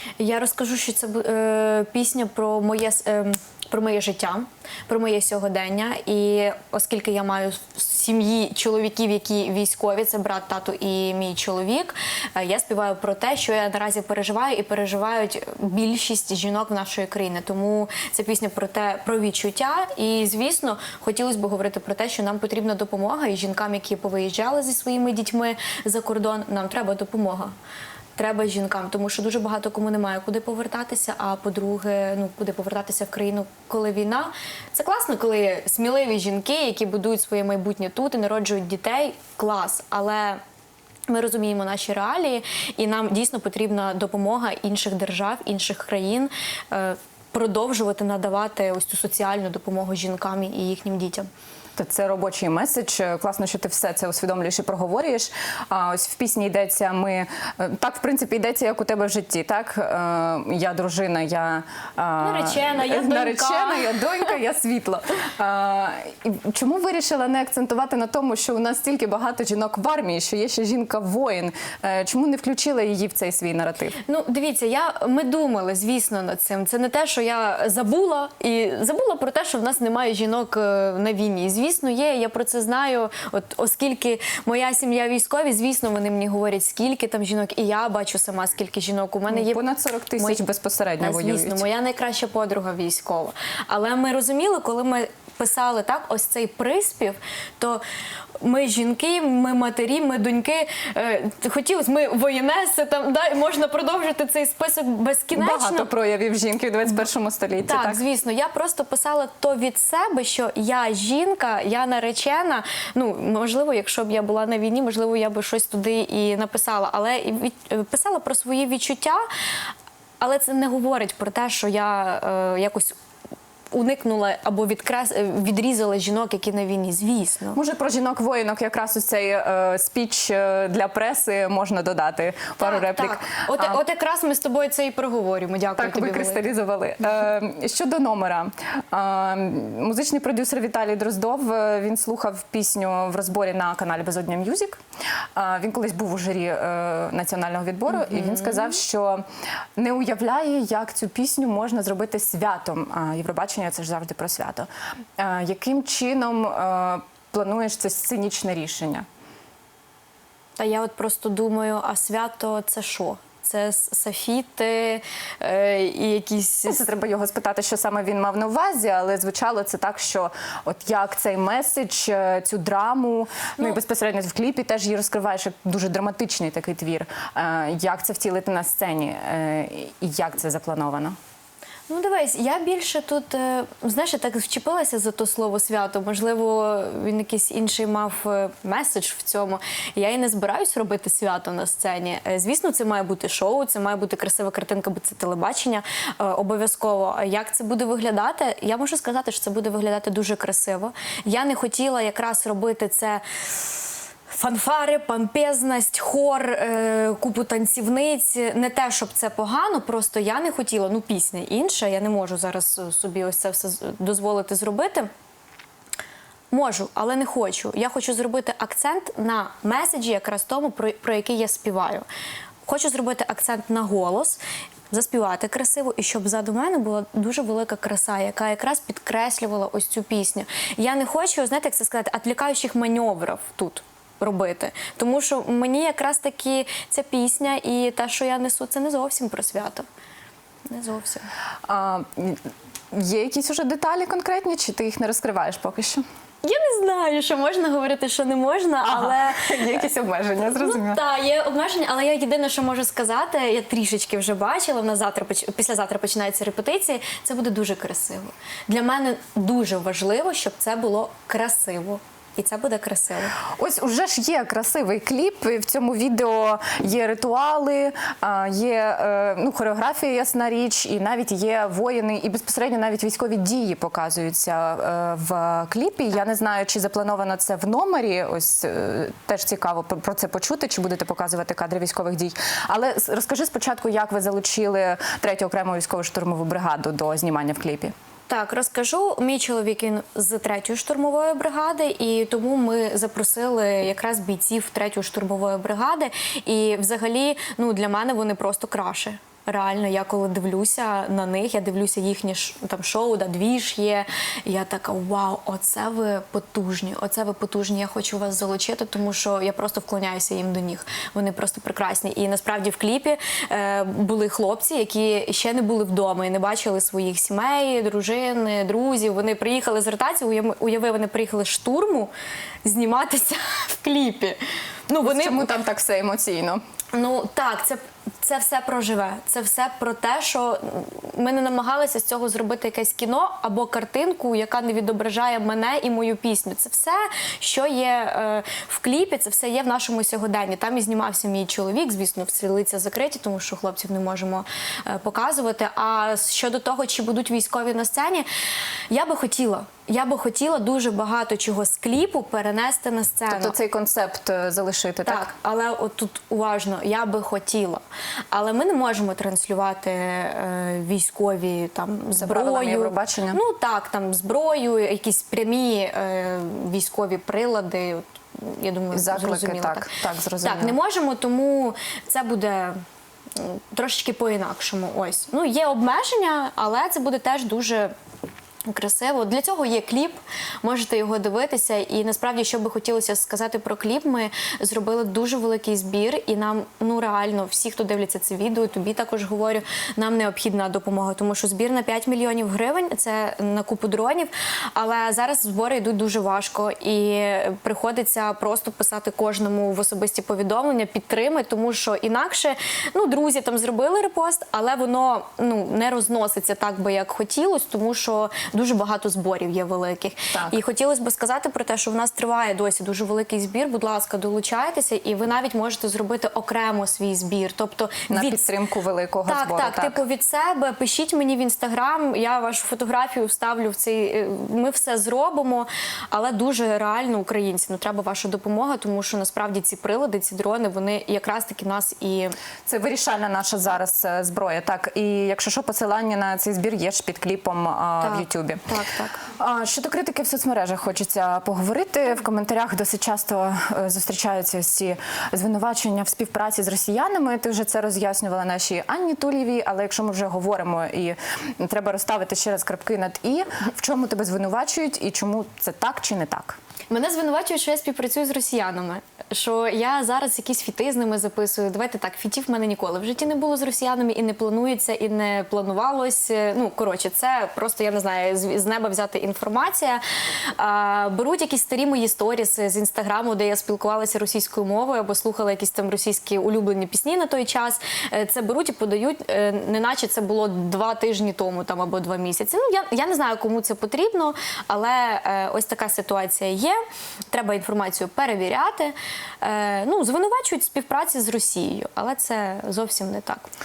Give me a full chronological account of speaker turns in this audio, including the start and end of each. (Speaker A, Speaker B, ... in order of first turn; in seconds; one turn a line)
Speaker A: 0.2-27.5
Speaker A: 28.2-40.4
Speaker A: 41.1-51.3
Speaker B: 51.8-74.0
Speaker A: 62.2-64.3
Speaker A: 74.1-89.6
Speaker B: 89.3-91.7
Speaker A: 90.2-90.4
Speaker A: 91.0-97.8
Speaker A: 98.4-105.9
Speaker B: 105.3-108.0
Speaker A: 107.6-119.2
Speaker A: 120.2-123.0
Speaker A: 123.7-127.6
Speaker B: 127.5-133.8
Speaker A: 132.6-136.5
Speaker B: 135.8-144.8
Speaker B: 145.4-149.3
Speaker A: 148.2-148.7
Speaker B: 149.8-159.1
Speaker A: 160.6-166.8
Speaker B: 166.7-181.2
Speaker A: 181.9-215.1
Speaker A: 216.5-222.1
Speaker A: 222.7-224.4
Speaker A: 224.9-239.9
Speaker A: 240.7-241.3
Speaker B: 241.7-246.0
Speaker A: 246.4-249.8
Speaker B: 248.9-251.0
Speaker A: 250.5-263.4
Speaker B: 263.4-287.9
Speaker A: 288.3-322.1
Speaker A: 322.6-325.5
Speaker B: 325.0-326.6
Speaker A: 326.9-348.3
Speaker A: 348.9-353.6
Speaker B: 353.3-355.3
Speaker A: 355.1-369.9
Speaker B: 362.2-363.4
Speaker B: 368.9-370.8
Speaker A: 370.4-372.8
Speaker A: 373.4-377.9
Speaker A: 378.7-418.5
Speaker B: 418.1-420.0
Speaker A: 419.2-432.4
Speaker B: 432.7-438.6
Speaker A: 438.0-439.2
Speaker B: 439.3-456.6
Speaker A: 456.9-470.0
Speaker A: 470.6-486.8
Speaker A: 487.3-493.5